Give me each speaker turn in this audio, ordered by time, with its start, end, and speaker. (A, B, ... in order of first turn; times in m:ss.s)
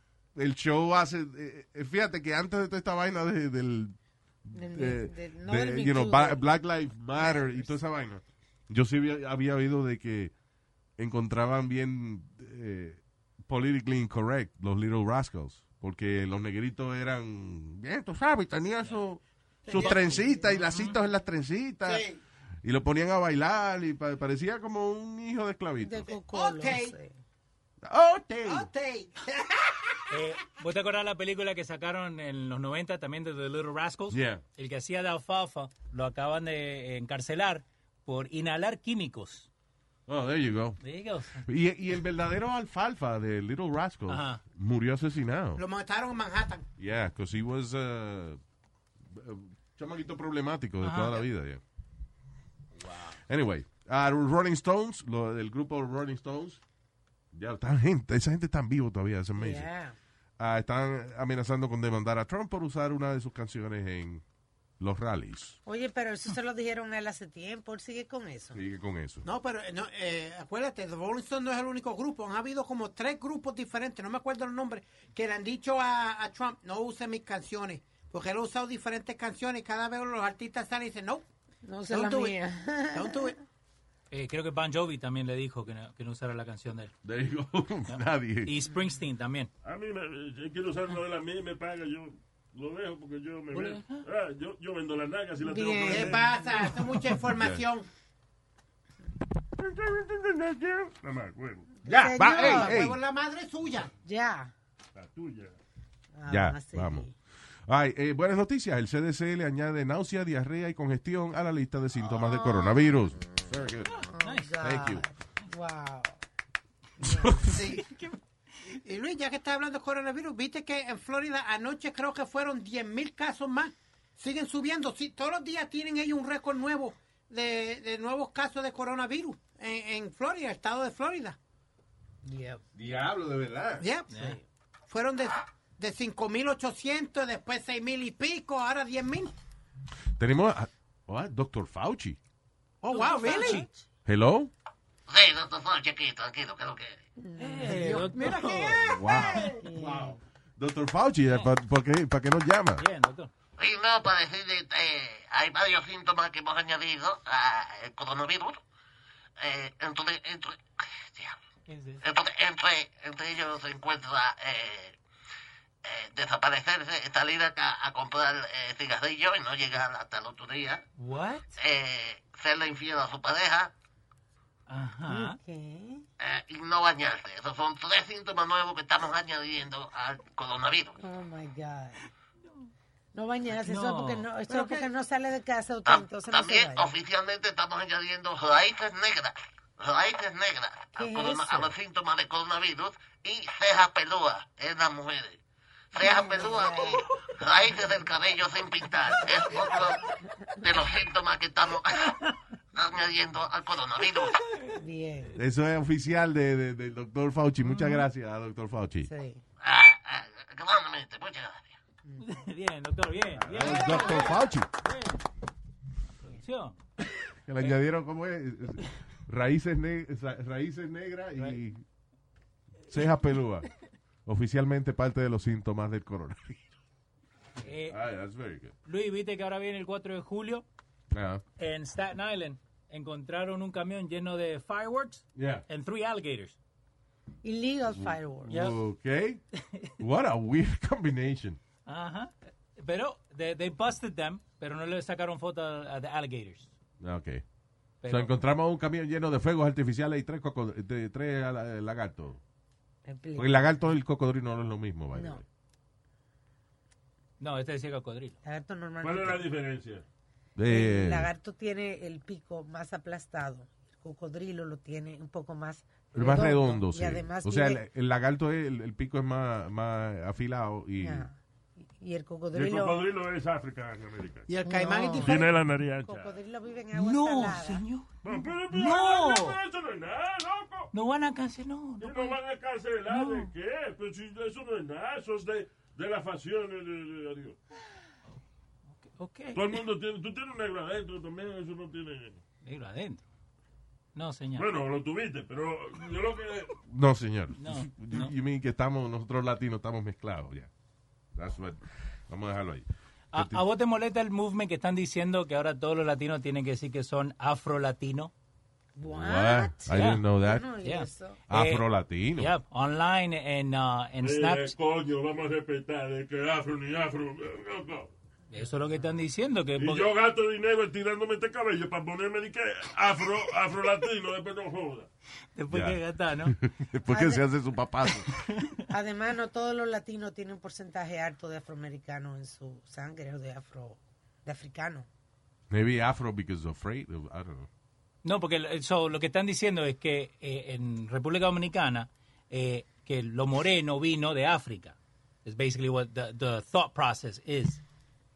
0:00.4-0:04.0 A
0:04.5-0:10.3 A
0:04.5-0:06.5 B
0:07.2-0:07.7 B
0:11.0-0:22.0 A
0:19.7-0:20.1 C
0:19.8-0:20.4 B
0:20.7-0:21.0 D
0:21.9-0:22.2 C
0:22.6-0:26.1 A
0:25.8-0:27.2 B
0:26.3-0:27.0 C
0:27.8-0:28.7 A
0:28.5-0:30.0 C
0:30.1-0:39.5 D
0:34.1-0:34.4 A
0:40.1-0:40.8 A
0:40.8-0:41.5 D
0:41.4-0:45.6 A
0:44.1-0:44.4 D
0:45.6-0:46.7 C
0:46.8-0:48.4 A
0:49.0-0:51.6 A
0:50.8-0:51.2 D
0:52.8-0:53.2 D
0:53.3-0:56.6 A
0:57.3-0:59.7 A
0:59.4-1:00.0 B
1:00.4-1:04.2 A
1:04.8-1:05.6 A
1:05.7-1:08.6 B
1:08.6-1:09.3 A
1:09.2-1:21.3 C
1:21.6-1:23.3 B
1:21.9-1:22.4 C
1:22.9-1:23.4 C
1:24.1-1:26.9 D
1:27.0-1:28.6 A
1:27.9-1:29.5 D
1:29.6-1:36.2 E
1:33.5-1:34.0 D
1:35.4-1:36.8 B
1:35.9-1:37.9 C
1:37.4-1:37.6 A
1:39.7-1:41.7 E
1:41.8-1:42.8 B
1:41.8-1:43.0 A
1:42.3-1:43.9 C
1:44.0-1:44.5 B
1:45.0-1:45.6 E
1:46.1-1:47.1 B
1:46.3-1:47.1 A
1:47.7-1:54.1 A
1:52.0-1:56.2 B
1:54.2-1:54.5 D
1:54.6-1:55.0 A
1:57.0-1:57.4 B
1:57.0-1:57.7 A
1:57.5-1:57.9 C
1:57.6-1:58.2 D
1:58.8-2:11.4 C
2:12.2-2:12.6 B
2:12.7-2:13.9 A
2:13.8-2:14.4 C
2:14.1-2:14.4 D
2:14.9-2:19.3 C
2:20.2-2:22.2 A
2:22.8-2:23.7 C
2:22.9-2:23.7 D
2:24.1-2:24.5 A
2:25.1-2:27.0 F
2:27.2-2:28.1 B
2:27.4-2:29.0 D
2:27.6-2:29.6 C
2:28.9-2:32.8 A
2:29.4-2:30.2 B
2:32.8-2:33.3 D
2:33.6-2:38.6 F
2:39.4-2:41.4 F
2:41.7-2:42.0 D
2:42.0-2:45.0 F
2:45.8-2:50.8 F
2:51.0-2:51.6 D
2:51.6-2:53.7 F
2:54.7-2:55.4 D
2:55.1-2:56.0 B
2:56.2-3:01.0 F
3:01.0-3:02.0 B
3:03.1-3:07.0 B
3:03.5-3:04.9 D
3:05.9-3:15.4 F
3:11.0-3:11.7 B
3:15.9-3:20.0 F
3:16.0-3:17.1 B
3:20.6-3:22.2 F
3:22.8-3:24.4 F
3:24.8-3:25.4 B
3:25.4-3:29.1 A
3:27.6-3:28.1 D
3:29.0-3:29.4 B
3:29.6-3:31.7 F
3:32.2-3:35.2 D
3:33.4-3:34.7 A
3:36.3-3:36.8 D
3:37.5-3:41.8 A
3:42.9-3:43.7 A
3:44.3-3:46.7 A
3:47.6-3:48.0 D
3:47.8-3:48.7 A
3:48.8-3:50.7 D
3:51.1-3:51.4 A
3:51.6-3:56.6 D
3:55.4-3:55.7 A
3:57.4-3:58.8 B
3:57.9-3:59.4 A
4:00.0-4:01.6 A
4:01.9-4:06.7 D
4:07.0-4:07.4 A
4:08.0-4:08.3 D
4:08.1-4:12.4 A
4:13.1-4:13.8 B
4:13.4-4:15.4 A
4:15.1-4:15.4 B
4:17.4-4:18.4 D
4:18.4-4:19.5 B
4:19.0-4:20.0 E
4:20.6-4:21.3 A
4:20.7-4:27.8 B
4:26.1-4:31.3 A
4:31.0-4:31.4 B
4:32.0-4:33.0 B
4:32.5-4:34.5 E
4:34.5-4:35.5 C
4:34.6-4:37.8 B
4:35.2-4:36.4 E
4:36.9-4:39.6 D
4:38.2-4:40.9 E
4:40.9-4:42.4 D
4:42.0-4:47.6 E
4:43.1-4:43.5 D
4:49.0-4:49.8 D
4:49.5-4:52.4 E
4:52.6-4:53.2 D
4:54.2-4:54.7 D
4:54.6-4:56.7 E
4:56.9-5:00.7 A
4:57.6-4:58.3 D
5:01.4-5:03.6 A
5:03.3-5:08.3 D
5:09.0-5:11.4 B
5:09.0-5:10.7 A
5:09.9-5:10.2 D
5:10.8-5:14.7 D
5:11.5-5:12.5 A
5:14.2-5:18.1 E
5:18.5-5:20.1 D
5:19.8-5:25.1 E
5:25.6-5:26.6 D
5:25.7-5:28.3 A
5:27.0-5:27.4 B
5:28.4-5:28.8 D
5:28.9-5:35.1 B
5:35.7-5:37.7 A
5:38.2-5:47.8 D